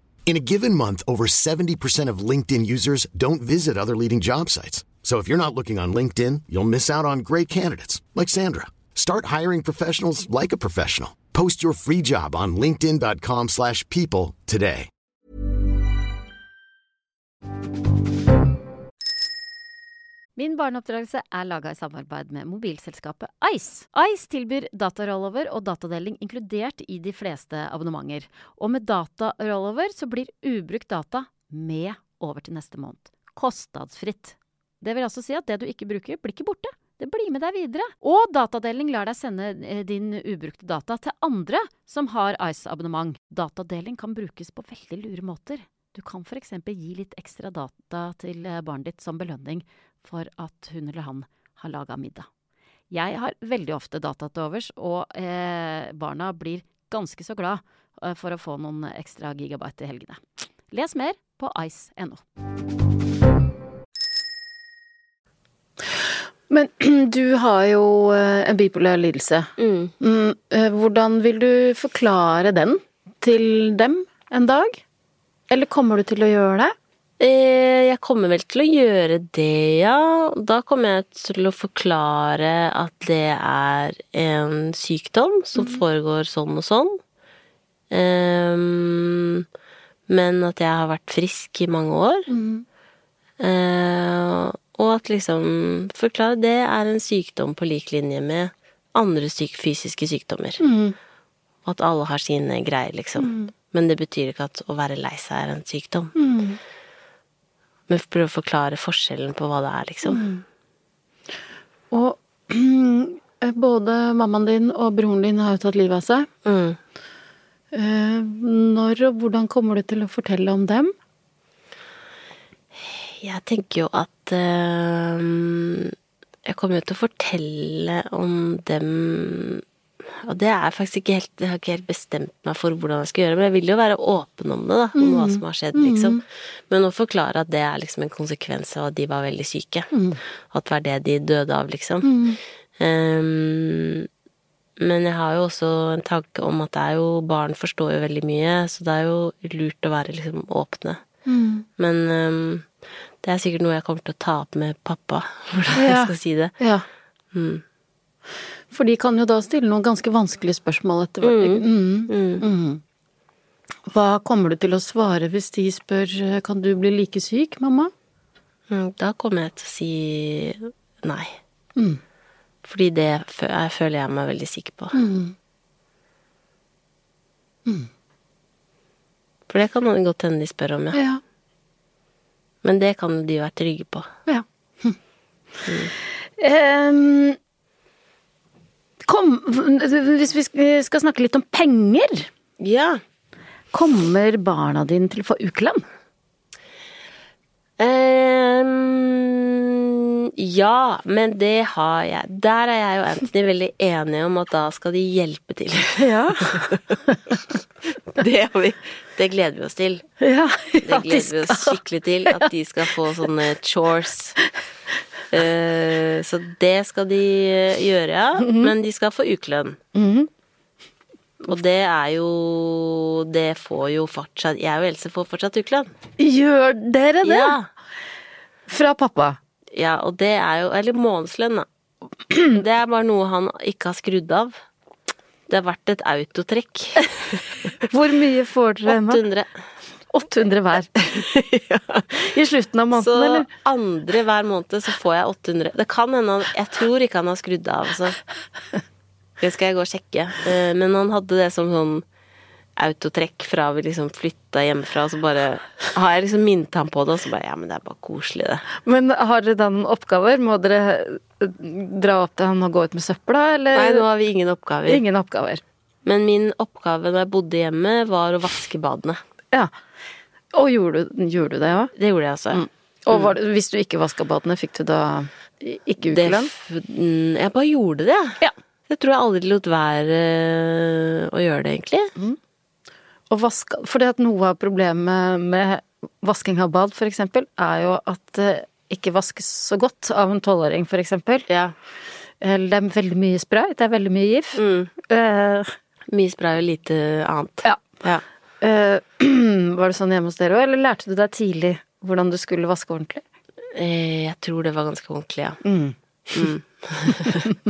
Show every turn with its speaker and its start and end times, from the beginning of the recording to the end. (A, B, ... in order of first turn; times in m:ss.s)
0:00.2-0:14.9 A
0:20.4-0:52.3 B
0:52.9-1:02.2 B
1:06.5-1:09.5 B
1:09.6-1:09.9 C
1:10.0-1:14.8 B
1:15.5-1:16.7 B
1:17.2-1:27.0 C
1:27.9-1:29.4 C
1:30.1-1:32.3 C
1:32.3-1:32.6 B
1:33.4-1:40.6 C
1:40.6-1:40.9 B
1:41.6-1:46.1 C
1:43.2-1:43.5 B
1:46.2-1:46.6 B
1:47.9-1:50.2 C
1:50.0-1:50.4 B
1:51.9-1:56.3 B
1:56.4-1:56.8 C
1:57.7-2:00.9 B
2:02.8-2:05.9 C
2:06.4-2:09.6 C
2:10.2-2:19.9 C
2:15.0-2:16.2 B
2:19.9-2:20.2 B
2:20.5-2:22.2 C
2:22.0-2:22.4 B
2:22.8-2:24.1 C
2:24.8-2:31.0 C
2:31.3-2:31.6 B
2:31.8-2:32.6 C
2:33.2-2:36.6 C
2:35.8-2:36.8 B
2:37.3-2:37.6 C
2:38.7-2:42.8 B
2:41.2-2:42.4 C
2:43.9-2:47.9 B
2:48.7-2:51.4 C
2:52.6-2:54.9 C
2:54.9-2:55.3 B
2:59.5-3:01.0 C
3:00.9-3:01.2 B
3:02.6-3:04.1 C
3:04.3-3:05.0 B
3:06.4-3:07.4 B
3:09.1-3:12.3 B
3:12.6-3:13.0 C
3:13.7-3:15.8 B
3:17.8-3:27.4 C
3:26.0-3:26.5 B
3:28.1-3:30.1 C
3:30.2-3:31.8 B
3:30.8-3:34.4 C
3:35.3-3:39.8 C
3:38.4-3:38.7 B
3:39.9-3:40.3 B
3:41.4-3:45.9 C
3:46.2-3:47.5 B
3:47.2-3:47.7 C
3:48.7-3:49.4 B
3:49.7-3:51.6 C
3:52.6-3:54.5 C
3:55.5-3:57.8 C
3:57.9-3:59.2 B
3:58.9-3:59.5 C
4:00.1-4:01.0 B
4:01.0-4:02.2 C
4:02.3-4:03.5 B
4:02.9-4:08.2 C
4:09.4-4:12.0 C
4:12.8-4:18.6 C
4:18.8-4:24.0 B
4:23.7-4:25.0 C
4:24.9-4:25.6 B
4:26.0-4:29.2 C
4:30.5-4:31.9 B
4:32.0-4:33.3 C
4:32.5-4:36.5 B
4:36.0-4:42.1 C
4:43.3-4:51.4 B
4:51.5-4:51.7 C
4:52.4-4:55.7 B
4:54.5-4:54.9 C
4:56.1-4:58.2 C
4:58.6-5:03.2 B
5:03.7-5:05.6 C
5:05.6-5:06.5 B
5:06.3-5:07.5 C
5:07.2-5:07.5 B